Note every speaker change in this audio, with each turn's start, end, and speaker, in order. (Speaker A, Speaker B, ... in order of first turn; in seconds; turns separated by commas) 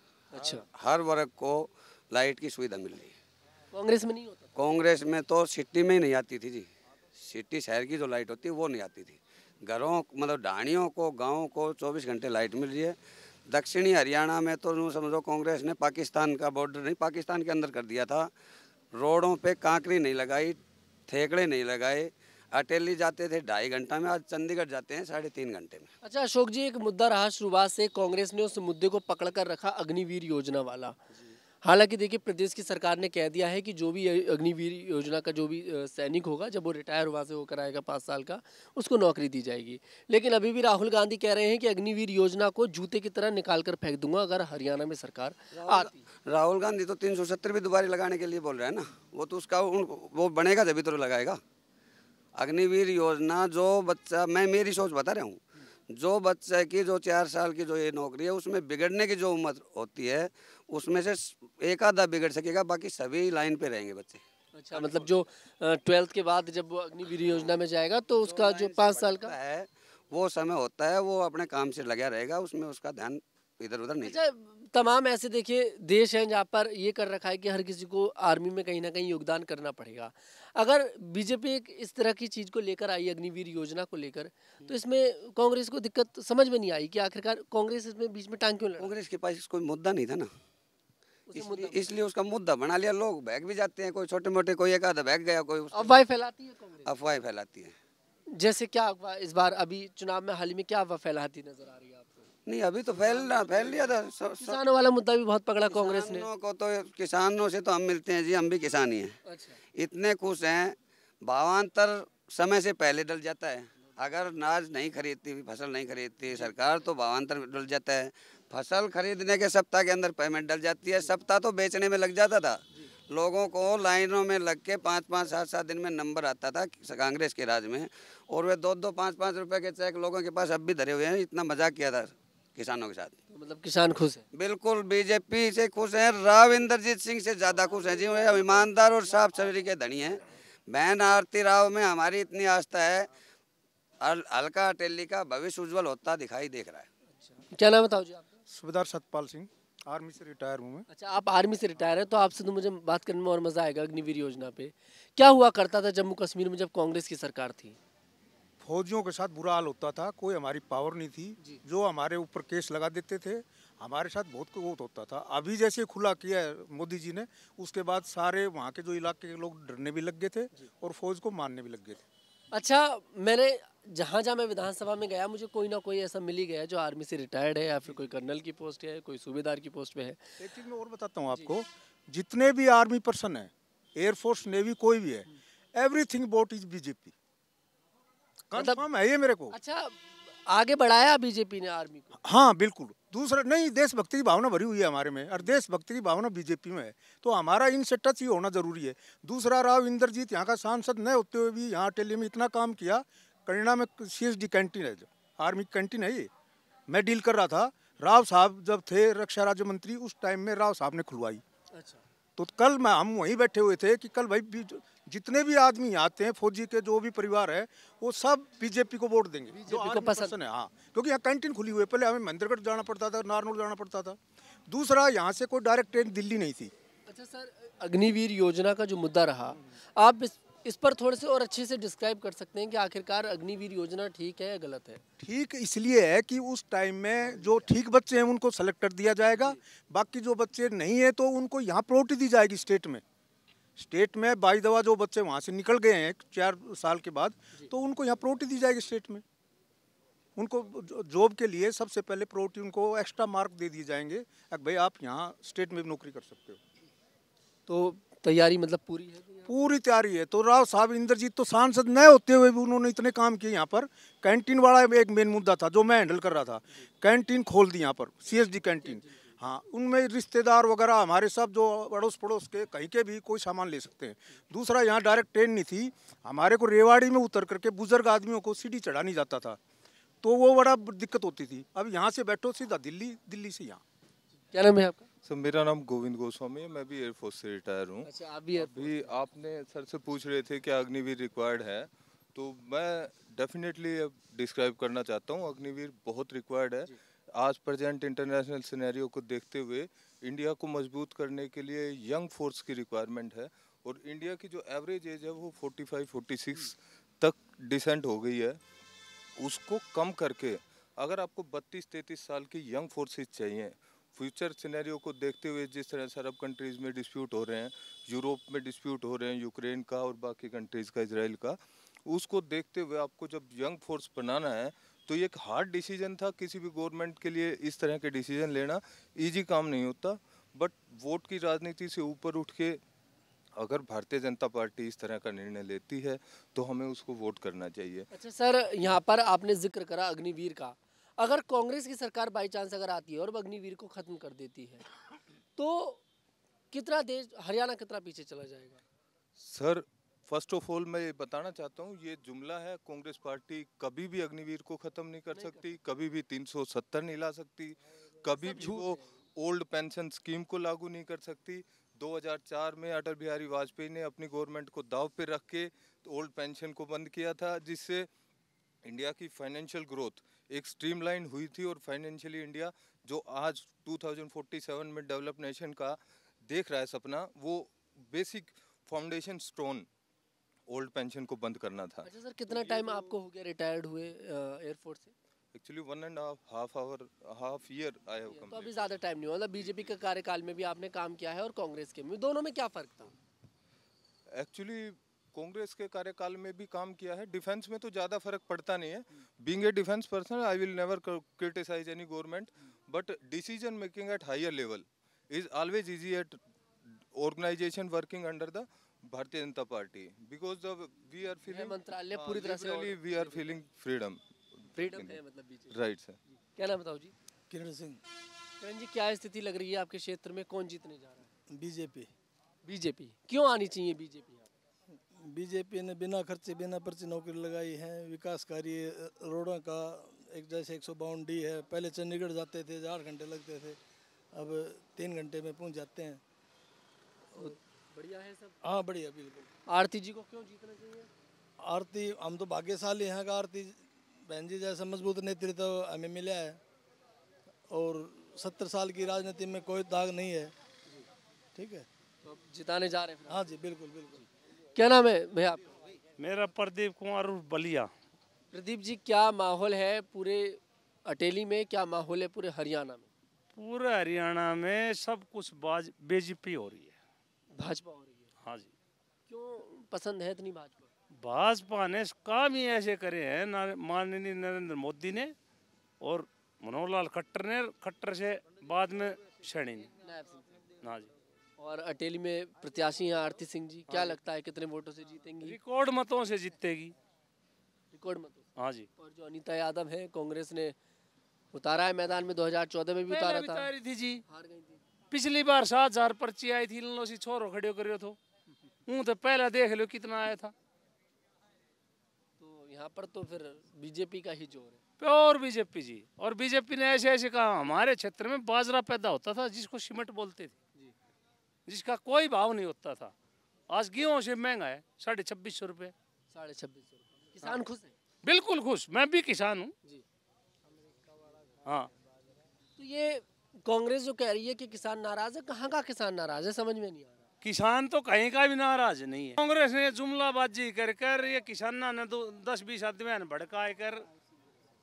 Speaker A: 0.3-0.6, Speaker B: 0.7-3.1, Speaker A: 3.7-4.5, Speaker B: 4.5-13.0, Speaker B: 13.5-18.3, Speaker B: 19.0-25.9, Speaker A: 26.0-31.0, Speaker A: 31.6-46.0, Speaker B: 45.6-51.4, Speaker B: 52.4-55.4, Speaker B: 56.0-65.2, Speaker A: 64.5-69.3, Speaker B: 67.2-67.6, Speaker B: 68.2-74.2, Speaker A: 74.0-88.9, Speaker B: 88.8-90.3, Speaker A: 91.3-91.9, Speaker B: 91.3-96.0, Speaker A: 95.7-96.9, Speaker B: 96.8-97.8, Speaker A: 98.3-102.3, Speaker B: 102.5-104.6, Speaker A: 103.0-103.9, Speaker A: 104.4-106.3, Speaker B: 105.7-109.2, Speaker A: 109.2-109.6, Speaker B: 109.8-110.7, Speaker B: 111.3-122.6, Speaker B: 123.1-133.2, Speaker A: 133.3-134.2, Speaker B: 134.3-143.1, Speaker B: 144.0-146.9, Speaker A: 147.1-148.4, Speaker C: 148.5-150.8, Speaker A: 150.9-157.8, Speaker C: 158.6-172.0, Speaker A: 172.5-180.2, Speaker C: 180.4-187.1, Speaker C: 188.5-189.6, Speaker A: 188.5-188.8, Speaker A: 189.5-192.1, Speaker C: 192.2-206.3, Speaker C: 206.9-211.4, Speaker A: 211.7-212.0, Speaker C: 212.4-226.7, Speaker A: 219.7-220.3, Speaker A: 227.1-235.0, Speaker C: 235.2-243.0, Speaker C: 243.8-249.2, Speaker C: 250.3-256.6, Speaker A: 257.7-259.5, Speaker C: 259.4-279.6, Speaker A: 268.8-269.2, Speaker C: 280.2-283.8, Speaker A: 284.5-285.1, Speaker D: 285.2-308.6, Speaker A: 288.0-289.1, Speaker D: 309.4-332.8, Speaker D: 333.6-338.1, Speaker A: 338.1-344.8, Speaker A: 345.5-346.0, Speaker A: 346.7-348.8, Speaker D: 349.4-368.1, Speaker A: 355.3-355.7, Speaker A: 358.4-359.1, Speaker D: 368.8-379.9, Speaker D: 380.7-382.1, Speaker A: 382.0-385.1, Speaker D: 385.5-388.8, Speaker A: 388.3-393.1, Speaker D: 394.3-406.4, Speaker D: 407.1-415.2, Speaker A: 411.5-413.6, Speaker A: 414.7-417.1, Speaker D: 415.7-416.2, Speaker E: 417.5-418.0, Speaker A: 418.6-421.3, Speaker E: 421.5-422.1, Speaker A: 422.6-424.5, Speaker E: 425.1-433.8, Speaker E: 434.3-436.2, Speaker A: 437.4-438.6, Speaker E: 438.6-439.5, Speaker A: 439.7-441.1, Speaker E: 441.6-446.6, Speaker E: 447.7-450.5, Speaker E: 451.5-451.9, Speaker A: 452.2-453.6, Speaker E: 453.3-454.2, Speaker A: 454.7-455.8, Speaker F: 456.2-457.9, Speaker A: 458.5-463.1, Speaker F: 463.5-466.9, Speaker A: 467.5-468.3, Speaker F: 468.4-468.7, Speaker A: 469.3-470.9, Speaker F: 471.2-475.3, Speaker F: 476.0-479.9, Speaker A: 480.0-480.5, Speaker F: 480.8-481.1, Speaker A: 481.6-485.6, Speaker F: 485.4-486.9, Speaker A: 487.9-490.7, Speaker F: 488.6-488.9, Speaker A: 491.5-493.7, Speaker F: 493.1-494.2, Speaker A: 494.3-494.8, Speaker F: 495.1-498.2, Speaker F: 498.9-500.5, Speaker A: 502.4-504.8, Speaker F: 505.0-510.5, Speaker F: 511.7-513.1, Speaker F: 513.7-515.9, Speaker A: 516.3-517.9, Speaker F: 518.2-519.7, Speaker F: 521.6-521.9, Speaker A: 522.8-527.2, Speaker F: 527.4-534.0